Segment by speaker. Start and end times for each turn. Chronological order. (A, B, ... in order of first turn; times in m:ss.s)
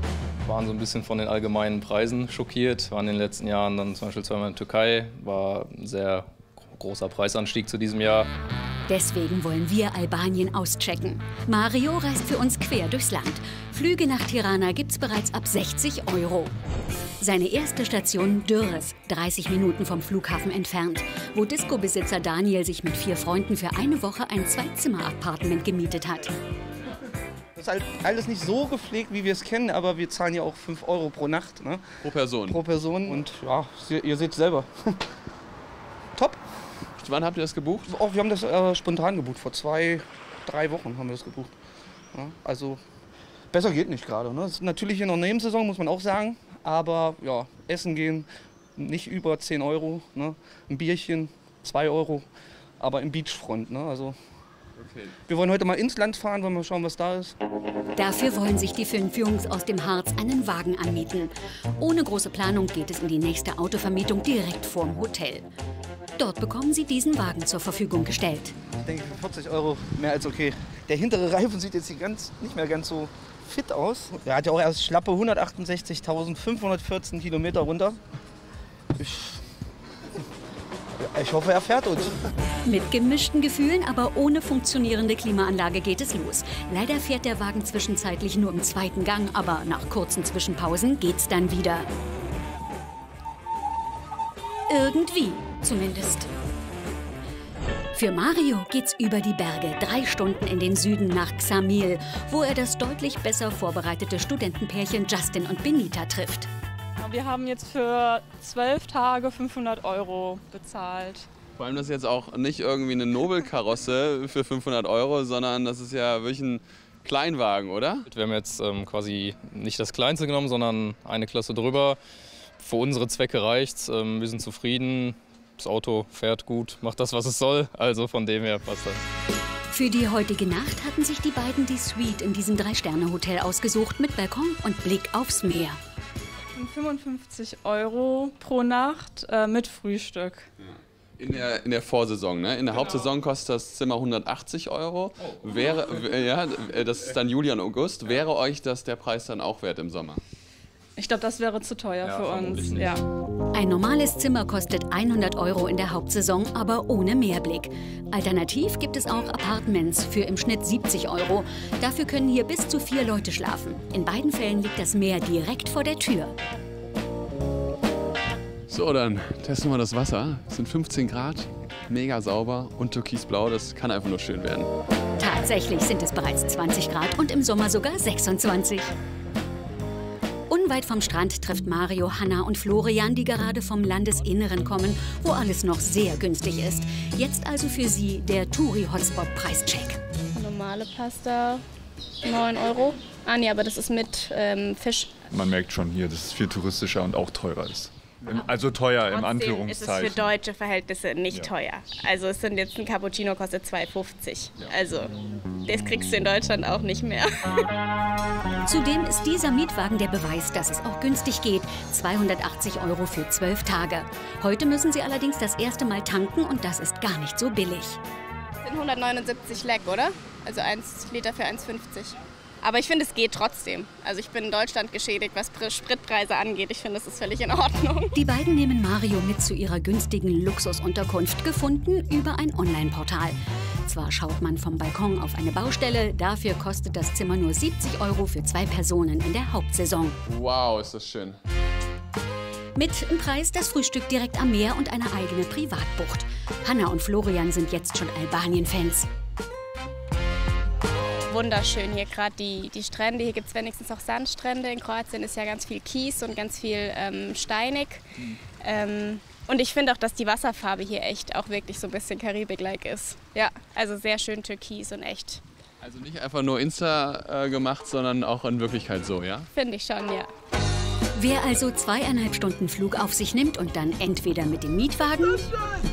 0:00.4-0:08.3 A
0:08.9-0:16.5 B
0:17.2-0:26.4 B
0:27.6-0:31.8 C
0:32.0-0:32.6 D
0:32.5-0:35.0 C
0:37.0-0:37.9 D
0:37.9-0:41.5 C
0:42.1-0:42.8 C
0:43.5-0:52.2 C
0:52.8-0:54.2 C
0:54.8-0:55.2 D
0:55.3-0:57.4 C
0:57.9-1:05.5 B
1:06.2-1:08.5 B
1:08.8-1:18.0 C
1:19.0-1:19.4 C
1:21.0-1:22.2 C
1:22.6-1:31.9 B
1:34.7-1:36.3 B
1:37.9-1:46.5 B
1:47.0-1:51.3 E
1:51.6-1:58.0 D
1:58.1-2:02.0 A
2:02.6-2:09.0 A
2:09.7-2:15.8 B
2:16.5-2:20.4 E
2:20.6-2:30.2 D
2:31.0-2:33.0 E
2:32.0-2:32.9 A
2:33.5-2:46.4 B
2:48.7-2:54.7 D
2:55.2-2:58.9 B
3:00.5-3:10.0 B
3:10.3-3:11.6 F
3:12.2-3:15.2 F
3:15.3-3:20.3 G
3:19.1-3:25.1 F
3:25.6-3:27.7 F
3:28.6-3:38.0 B
3:38.6-3:48.1 F
3:48.1-4:00.2 B
4:00.2-4:01.4 D
4:02.8-4:09.1 B
4:11.3-4:18.0 F
4:18.6-4:25.4 F
4:25.8-4:29.5 D
4:29.5-4:30.3 F
4:31.1-4:35.5 B